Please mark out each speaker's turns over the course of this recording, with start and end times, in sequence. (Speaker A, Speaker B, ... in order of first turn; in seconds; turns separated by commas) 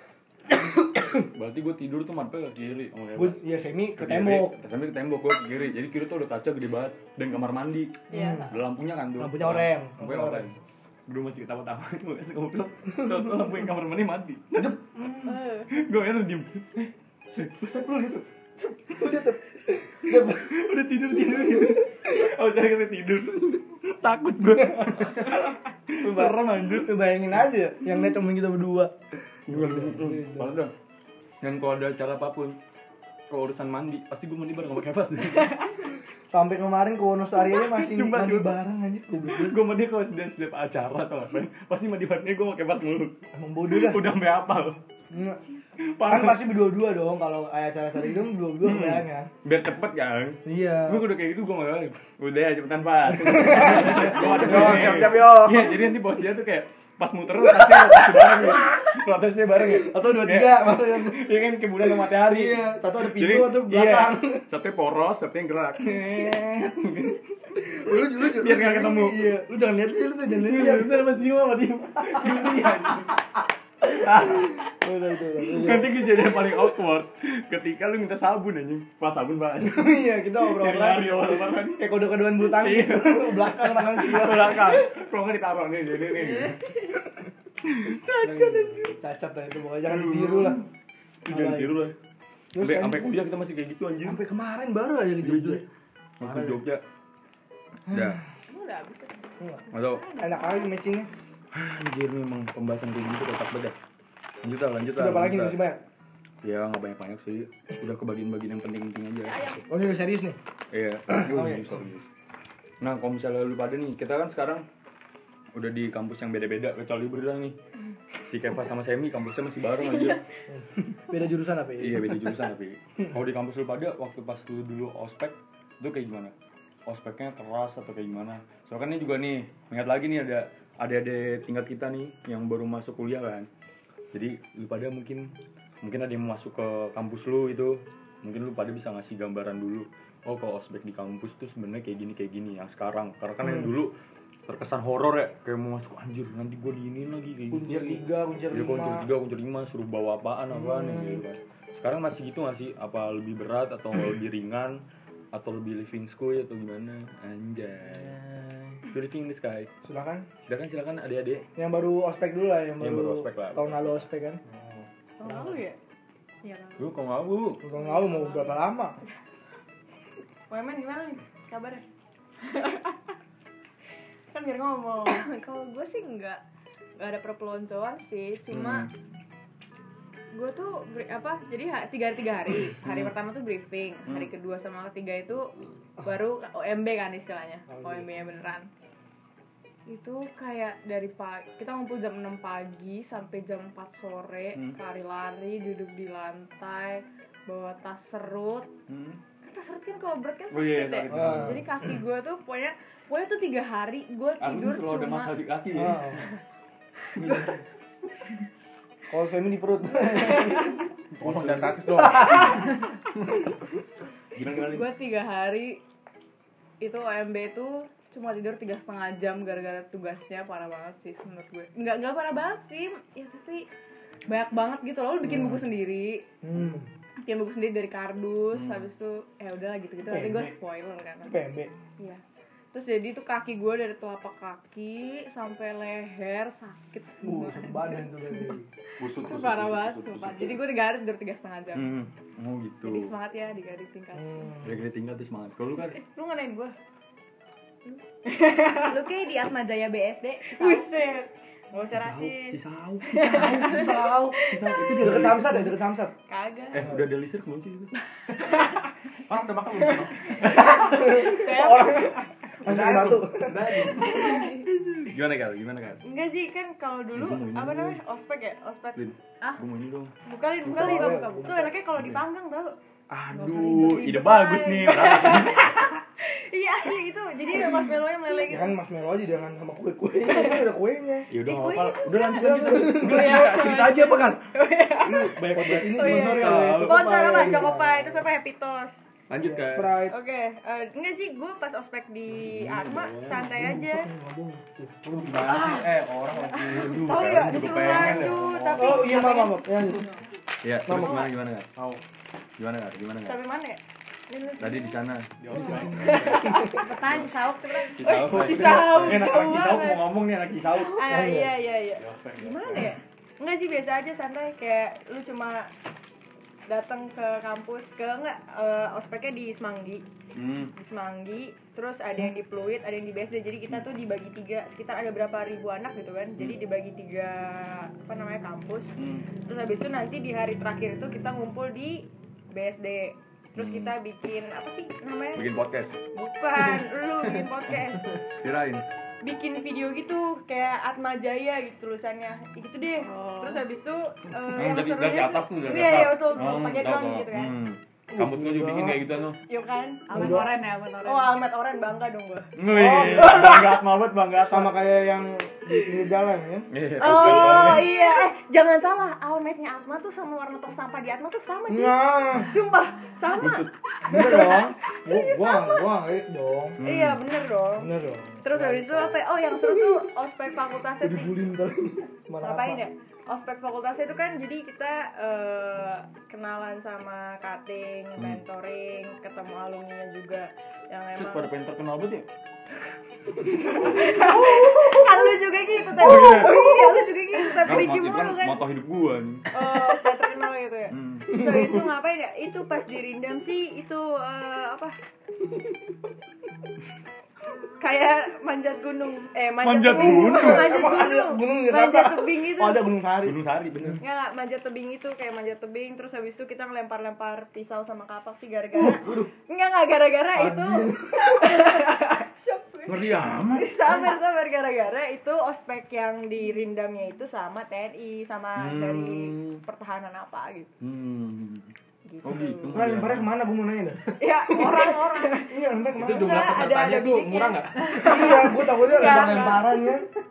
Speaker A: 0.5-1.3, Speaker B: 1.2-3.4, Speaker A: 3.1-4.5, Speaker B: 4.0-10.6, Speaker C: 8.1-8.5, Speaker A: 8.1-8.5, Speaker A: 9.2-10.5, Speaker B: 11.1-14.8, Speaker A: 14.6-15.4, Speaker C: 15.3-15.7, Speaker B: 15.7-17.9, Speaker A: 17.3-20.7, Speaker B: 20.3-26.9, Speaker A: 21.3-21.8, Speaker A: 24.6-25.4, Speaker A: 26.0-28.9, Speaker A: 29.5-30.6, Speaker B: 29.5-30.7, Speaker B: 31.4-32.6, Speaker B: 33.3-35.7, Speaker A: 36.3-39.6, Speaker B: 37.3-38.5, Speaker B: 39.1-44.8, Speaker A: 43.3-44.0, Speaker A: 45.1-45.4, Speaker B: 45.8-46.4, Speaker A: 46.1-49.3, Speaker B: 48.6-69.3, Speaker A: 50.5-51.1, Speaker A: 53.1-55.9, Speaker A: 57.4-58.7, Speaker A: 59.6-64.5, Speaker A: 67.6-71.1, Speaker B: 70.4-73.2, Speaker A: 72.1-72.7, Speaker B: 73.8-74.7, Speaker A: 73.9-76.4, Speaker B: 75.4-81.8, Speaker A: 79.6-84.9, Speaker B: 82.4-86.8, Speaker B: 87.6-89.0, Speaker A: 88.2-90.6, Speaker B: 89.9-90.7, Speaker B: 91.2-92.0, Speaker A: 91.3-91.8, Speaker A: 92.5-93.3, Speaker B: 92.6-94.2, Speaker A: 94.0-95.7, Speaker B: 95.2-95.7, Speaker B: 96.2-96.8, Speaker A: 96.2-96.6, Speaker B: 97.9-98.2, Speaker A: 97.9-98.2, Speaker C: 98.5-100.8, Speaker B: 99.7-100.1, Speaker A: 100.2-101.1, Speaker B: 101.5-103.8, Speaker B: 104.4-105.6, Speaker A: 105.0-105.8, Speaker B: 106.4-109.6, Speaker C: 109.3-109.6, Speaker A: 109.7-110.4, Speaker B: 110.7-112.1, Speaker A: 111.1-111.8, Speaker B: 112.8-114.7, Speaker B: 115.5-117.6, Speaker B: 118.2-120.2, Speaker A: 120.5-122.4, Speaker B: 121.8-126.3, Speaker B: 126.9-133.5, Speaker B: 134.1-143.9, Speaker A: 143.4-143.7, Speaker B: 144.5-158.2, Speaker A: 147.5-149.1, Speaker A: 150.5-151.2, Speaker D: 157.8-158.8, Speaker B: 158.8-159.7, Speaker A: 159.8-160.3, Speaker B: 160.4-161.5, Speaker A: 161.6-164.4, Speaker B: 162.8-164.1, Speaker D: 164.5-164.8, Speaker E: 165.2-165.8, Speaker C: 166.4-166.9, Speaker B: 166.8-167.6, Speaker A: 167.6-169.0, Speaker C: 167.7-168.6, Speaker E: 170.5-171.8, Speaker E: 172.4-173.0, Speaker E: 174.3-175.2, Speaker C: 175.1-176.4, Speaker C: 177.0-178.9, Speaker B: 178.5-178.9, Speaker C: 180.3-188.7, Speaker C: 189.9-198.7, Speaker B: 198.9-199.2, Speaker C: 199.4-205.3, Speaker B: 200.5-201.6, Speaker A: 201.1-201.6, Speaker B: 204.4-206.2, Speaker A: 205.7-206.2, Speaker C: 207.2-207.4, Speaker B: 207.2-207.6, Speaker A: 209.1-210.8, Speaker B: 211.1-211.9, Speaker D: 211.2-212.9, Speaker B: 214.3-214.9, Speaker C: 214.6-215.8, Speaker C: 216.8-223.7, Speaker C: 224.3-226.2, Speaker A: 226.4-226.9, Speaker C: 227.2-231.4, Speaker B: 228.5-228.8, Speaker B: 230.1-230.5, Speaker A: 231.3-231.7, Speaker C: 232.7-241.9, Speaker A: 237.2-238.7, Speaker B: 239.0-240.5, Speaker B: 241.7-243.1, Speaker C: 242.8-244.7, Speaker A: 244.2-244.8, Speaker B: 244.6-246.0, Speaker E: 245.9-246.8, Speaker E: 248.3-249.0, Speaker C: 248.8-250.9, Speaker E: 250.5-255.2, Speaker B: 251.9-255.8, Speaker A: 255.0-256.1, Speaker E: 256.3-256.9, Speaker B: 256.7-257.9, Speaker E: 258.4-258.8, Speaker D: 259.3-261.1, Speaker E: 260.3-262.3, Speaker A: 260.4-263.7, Speaker D: 262.6-264.4, Speaker E: 264.1-264.5, Speaker C: 264.1-264.6, Speaker B: 264.2-266.0, Speaker E: 266.0-269.1, Speaker B: 267.1-268.0, Speaker B: 269.0-270.1, Speaker E: 270.3-272.8, Speaker A: 270.6-271.8, Speaker C: 270.7-271.7, Speaker B: 272.0-272.2, Speaker B: 273.1-276.0, Speaker C: 273.3-275.5, Speaker E: 274.3-278.8, Speaker A: 278.4-281.3, Speaker E: 280.3-280.6, Speaker B: 281.3-287.7, Speaker E: 281.4-289.1, Speaker A: 282.3-283.4, Speaker A: 285.5-288.3, Speaker B: 289.3-290.0, Speaker A: 289.4-290.2, Speaker E: 290.1-294.1, Speaker B: 292.3-293.4, Speaker A: 293.3-295.1, Speaker D: 295.0-299.1, Speaker E: 295.5-295.9, Speaker E: 296.5-299.6, Speaker B: 296.7-298.8, Speaker A: 298.8-300.1, Speaker C: 299.3-300.1, Speaker B: 300.6-301.7, Speaker A: 300.9-301.3, Speaker E: 300.9-301.2, Speaker D: 301.8-302.0, Speaker B: 302.6-303.4, Speaker E: 303.2-305.0, Speaker B: 304.6-307.3, Speaker D: 305.5-306.4, Speaker A: 305.5-306.7, Speaker E: 305.6-306.9, Speaker C: 306.4-308.0, Speaker E: 307.8-310.1, Speaker B: 308.0-311.1, Speaker A: 308.4-309.4, Speaker E: 310.6-315.7, Speaker A: 311.1-311.6, Speaker B: 312.0-313.0, Speaker E: 316.7-320.0, Speaker B: 320.4-320.7, Speaker E: 320.7-335.5, Speaker B: 329.0-329.3, Speaker B: 333.6-333.9, Speaker B: 335.4-336.0, Speaker E: 336.1-338.2, Speaker B: 338.4-338.8, Speaker E: 339.2-347.6, Speaker C: 343.0-343.6, Speaker B: 344.6-349.4, Speaker A: 348.1-349.0, Speaker E: 349.5-353.8, Speaker C: 350.1-351.4, Speaker A: 350.1-350.5, Speaker B: 352.6-354.7, Speaker A: 352.7-353.6, Speaker A: 354.5-357.6, Speaker B: 356.7-357.9, Speaker E: 357.0-366.0, Speaker A: 361.7-362.5, Speaker B: 363.4-363.7, Speaker A: 364.0-366.8, Speaker B: 366.8-367.2, Speaker E: 366.8-367.9, Speaker A: 367.8-369.9, Speaker E: 368.4-371.4, Speaker A: 371.0-372.8, Speaker E: 372.4-381.5, Speaker B: 381.1-382.3, Speaker B: 383.4-385.0, Speaker E: 383.6-388.6, Speaker B: 385.9-386.8, Speaker B: 387.6-389.5, Speaker E: 389.5-395.0, Speaker B: 390.9-391.4, Speaker A: 391.3-391.8, Speaker E: 397.8-402.9, Speaker B: 399.6-400.8, Speaker A: 399.9-403.4, Speaker B: 403.2-404.0, Speaker E: 404.0-420.7, Speaker D: 408.9-409.3, Speaker A: 410.3-411.7, Speaker B: 412.9-413.7, Speaker B: 418.6-419.6, Speaker B: 420.8-423.3, Speaker E: 422.1-422.7, Speaker A: 422.7-424.9, Speaker E: 424.2-430.0, Speaker A: 425.5-426.5, Speaker D: 425.9-428.0, Speaker A: 427.9-430.1